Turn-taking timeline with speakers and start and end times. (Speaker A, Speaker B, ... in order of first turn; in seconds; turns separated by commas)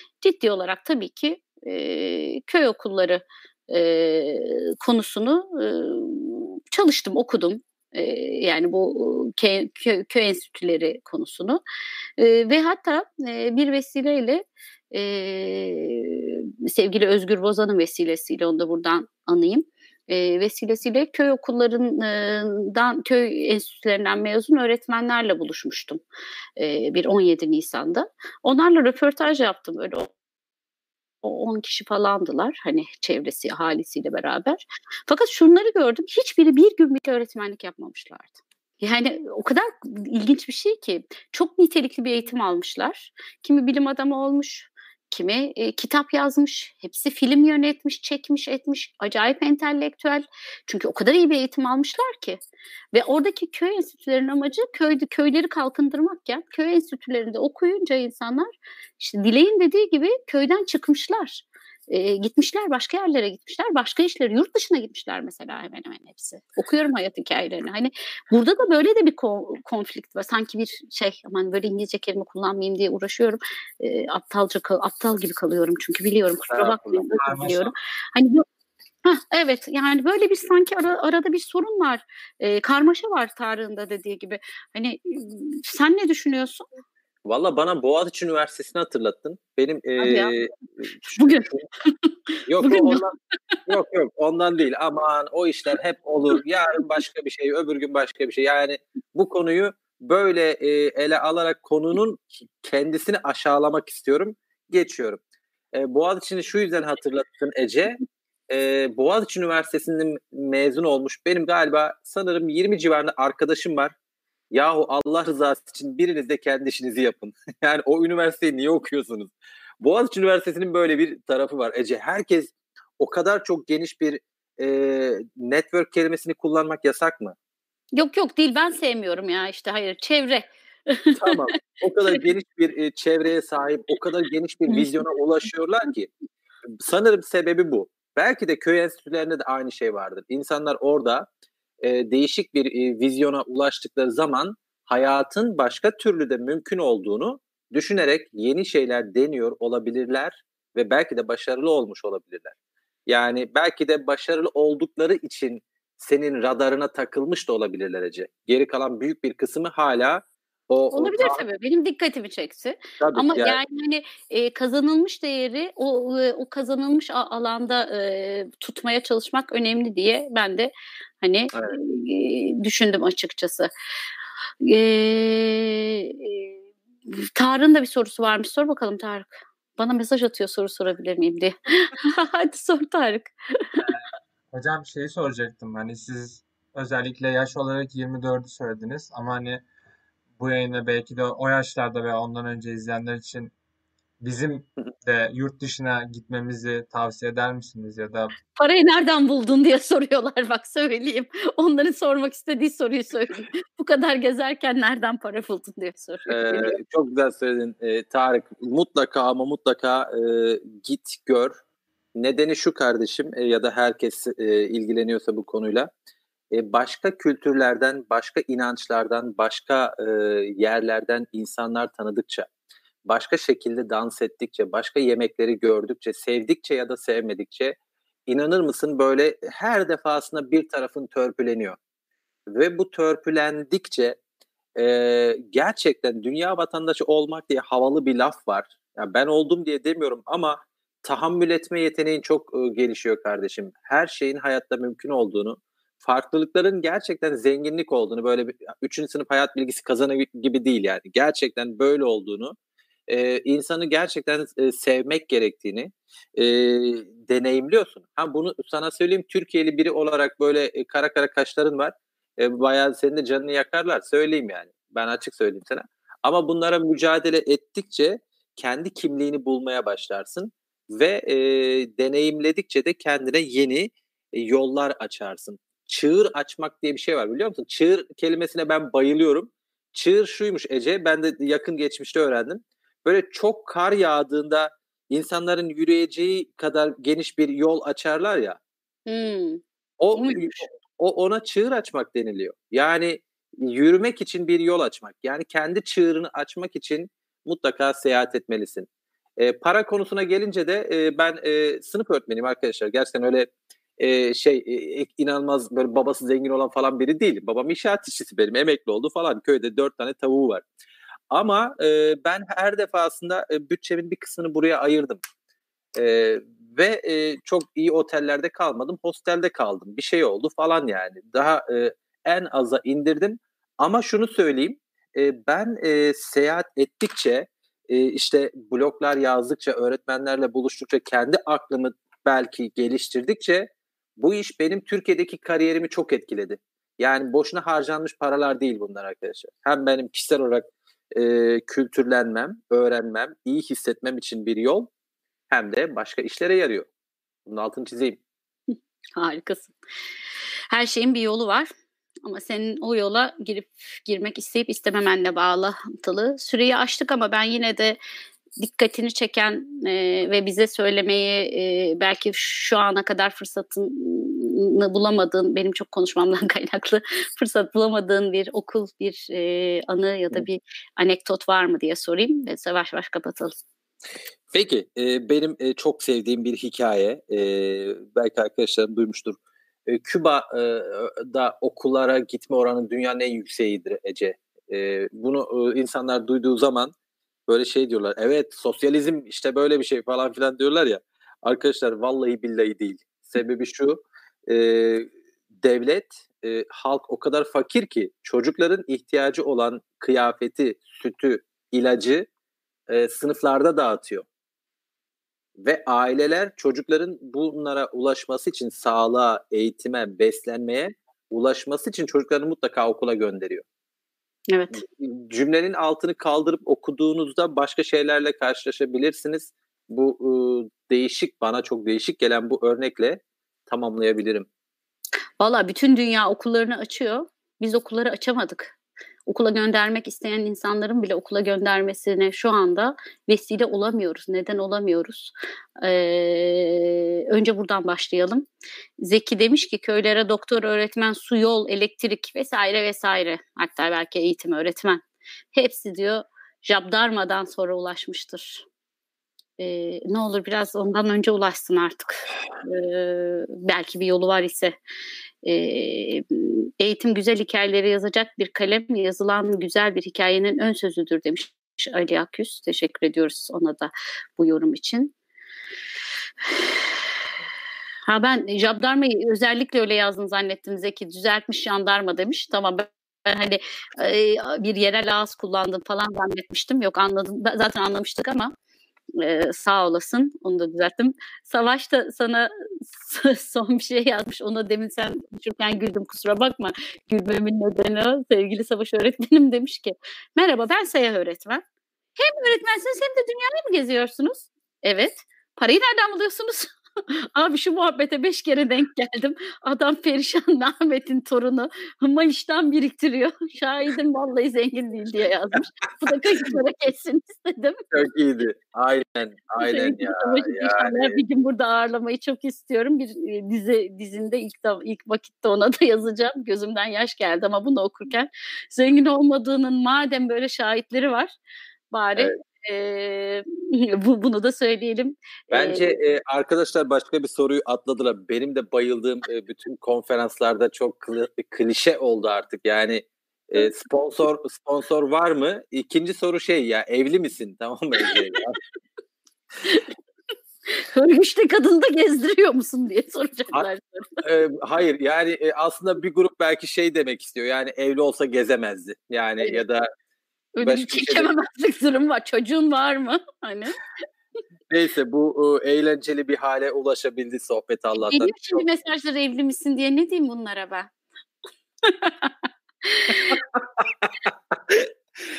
Speaker A: 0.2-11.6, Speaker A: 12.2-26.0, Speaker A: 26.6-30.1, Speaker A: 31.2-52.4, Speaker A: 52.9-78.4, Speaker B: 76.5-77.7, Speaker A: 79.0-86.7, Speaker B: 87.2-91.7, Speaker A: 90.0-90.3, Speaker A: 91.1-93.6, Speaker B: 92.5-93.1, Speaker B: 93.7-105.2, Speaker B: 105.7-108.0, Speaker B: 108.5-113.9, Speaker B: 114.5-127.3, Speaker A: 128.0-131.4, Speaker B: 131.1-136.1, Speaker B: 136.8-141.3, Speaker B: 141.8-152.5, Speaker B: 153.1-161.4, Speaker A: 160.9-170.7, Speaker B: 163.0-163.6, Speaker A: 171.2-173.7, Speaker A: 174.6-176.5, Speaker A: 177.1-183.8, Speaker C: 184.5-189.6, Speaker C: 190.4-193.5, Speaker C: 194.2-198.3, Speaker A: 198.6-206.8, Speaker B: 206.3-211.6, Speaker B: 212.2-215.9, Speaker B: 216.5-222.5, Speaker B: 223.1-227.8, Speaker B: 228.3-231.8, Speaker B: 232.5-234.2, Speaker B: 234.8-252.5, Speaker B: 253.1-288.6, Speaker A: 289.1-289.6, Speaker B: 290.0-310.6, Speaker A: 290.1-290.7, Speaker B: 311.3-315.2, Speaker B: 316.0-344.9, Speaker B: 345.5-346.9, Speaker B: 347.4-348.2, Speaker A: 349.2-349.7, Speaker A: 350.7-351.7, Speaker A: 352.2-358.0, Speaker A: 358.6-373.6, Speaker B: 374.5-386.9, Speaker B: 387.5-402.3, Speaker B: 402.9-404.2, Speaker B: 405.6-413.6, Speaker A: 414.5-414.8, Speaker B: 414.7-424.5, Speaker A: 425.4-428.8, Speaker A: 429.3-438.4, Speaker A: 439.0-448.6, Speaker A: 449.6-454.7, Speaker A: 455.4-465.1, Speaker A: 468.1-478.5, Speaker A: 479.2-491.6, Speaker A: 492.2-507.9, Speaker B: 507.9-511.2, Speaker A: 509.6-521.4, Speaker A: 521.9-525.9, Speaker B: 525.5-538.6, Speaker A: 540.7-544.2, Speaker B: 544.2-549.9, Speaker A: 550.5-553.8, Speaker B: 550.6-551.3, Speaker B: 554.7-558.6, Speaker A: 558.0-560.9, Speaker A: 561.8-563.4, Speaker B: 563.3-564.9